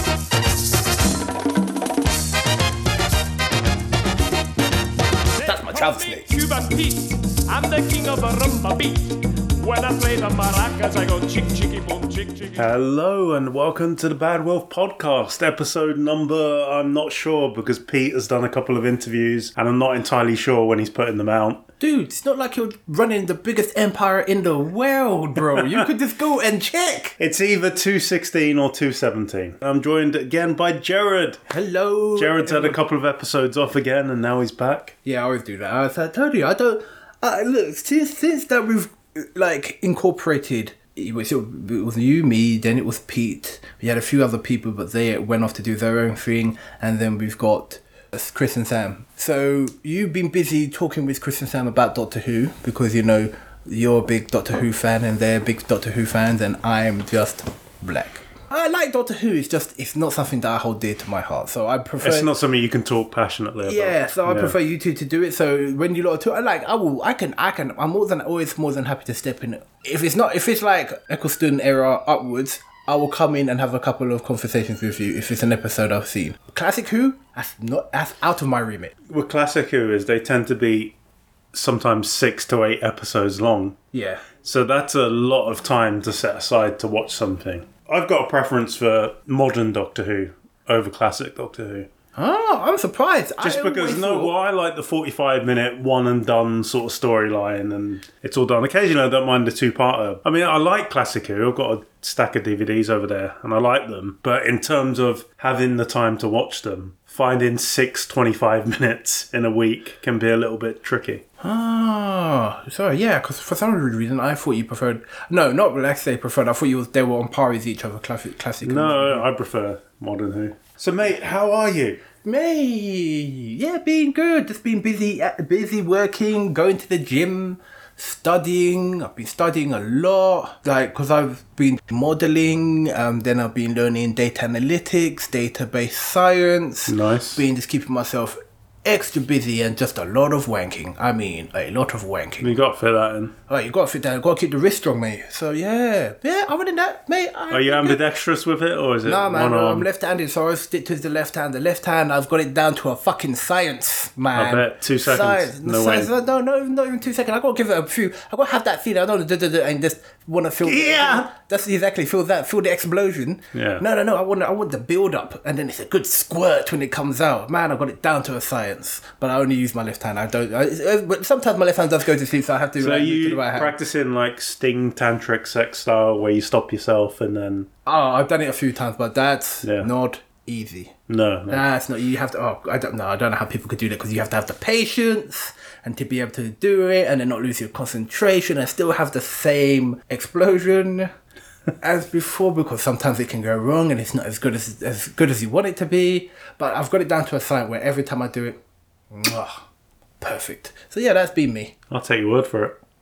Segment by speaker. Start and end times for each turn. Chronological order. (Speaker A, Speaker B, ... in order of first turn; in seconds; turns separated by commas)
Speaker A: 5.3-12.7, Speaker B: 5.4-6.3, Speaker C: 12.6-21.6, Speaker B: 21.8-27.2, Speaker C: 27.2-31.4, Speaker B: 31.5-32.8, Speaker C: 32.1-34.9, Speaker B: 35.0-62.3, Speaker C: 62.0-64.5, Speaker B: 63.6-78.9, Speaker C: 79.1-80.9, Speaker C: 81.5-83.8, Speaker B: 83.9-84.2, Speaker C: 84.4-91.9, Speaker B: 92.2-94.3, Speaker C: 93.4-111.2, Speaker B: 111.4-119.2, Speaker C: 118.6-122.0, Speaker B: 122.2-142.5, Speaker C: 136.9-137.4, Speaker C: 142.4-143.3, Speaker B: 143.5-148.0, Speaker C: 147.5-149.9, Speaker B: 149.0-173.8, Speaker C: 154.3-156.1, Speaker C: 160.6-161.3, Speaker C: 163.5-163.8, Speaker C: 172.8-177.7, Speaker B: 177.8-180.9, Speaker C: 179.6-179.9, Speaker C: 181.1-181.6, Speaker B: 181.5-191.1, Speaker B: 191.8-198.6, Speaker B: 199.1-199.7, Speaker B: 200.2-201.7, Speaker C: 201.9-202.8